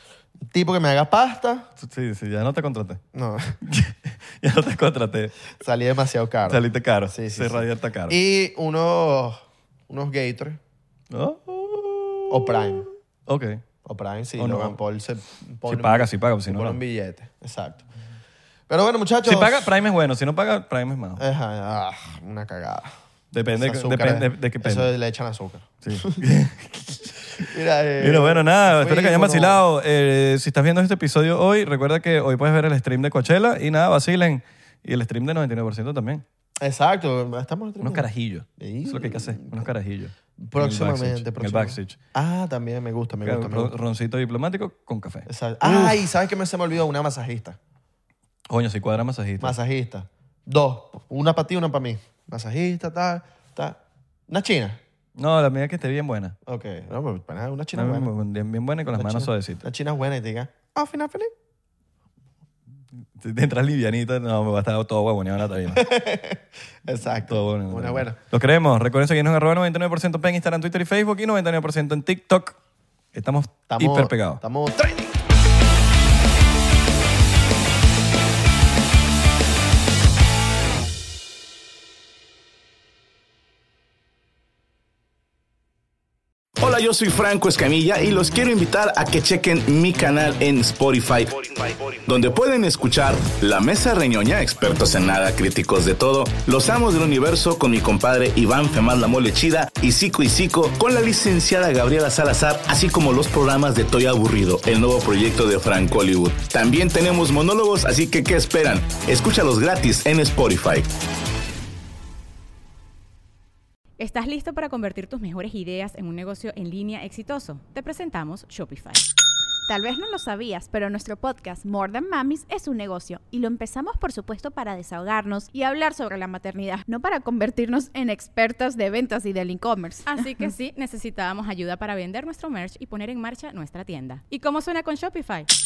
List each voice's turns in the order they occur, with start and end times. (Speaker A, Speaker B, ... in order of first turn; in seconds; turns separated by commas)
Speaker A: 0.5-1.7, Speaker B: 1.8-3.0, Speaker A: 3.1-3.6, Speaker B: 3.6-5.3, Speaker A: 5.6-10.6, Speaker B: 6.5-8.2, Speaker B: 11.1-13.6, Speaker A: 12.3-12.9, Speaker A: 13.8-17.8, Speaker B: 14.4-14.8, Speaker B: 15.7-16.8, Speaker A: 18.7-19.7, Speaker B: 19.2-21.2, Speaker A: 21.2-22.9, Speaker B: 23.3-24.9, Speaker A: 23.5-26.3, Speaker B: 25.8-27.1, Speaker A: 27.3-29.6, Speaker B: 28.0-36.2, Speaker A: 36.6-38.1, Speaker B: 37.8-42.0, Speaker A: 38.6-39.7, Speaker A: 40.4-43.7, Speaker B: 43.2-46.0, Speaker A: 45.2-47.6, Speaker B: 48.5-49.5, Speaker A: 49.4-54.8, Speaker B: 55.1-56.4, Speaker A: 56.5-58.1, Speaker B: 57.7-59.6, Speaker A: 58.9-61.3, Speaker B: 63.1-65.9, Speaker A: 65.7-68.2, Speaker B: 67.2-72.6, Speaker B: 73.1-74.4, Speaker A: 73.7-75.1, Speaker C: 86.6-110.9, Speaker D: 114.0-119.0, Speaker E: 119.7-130.2, Speaker D: 130.1-135.5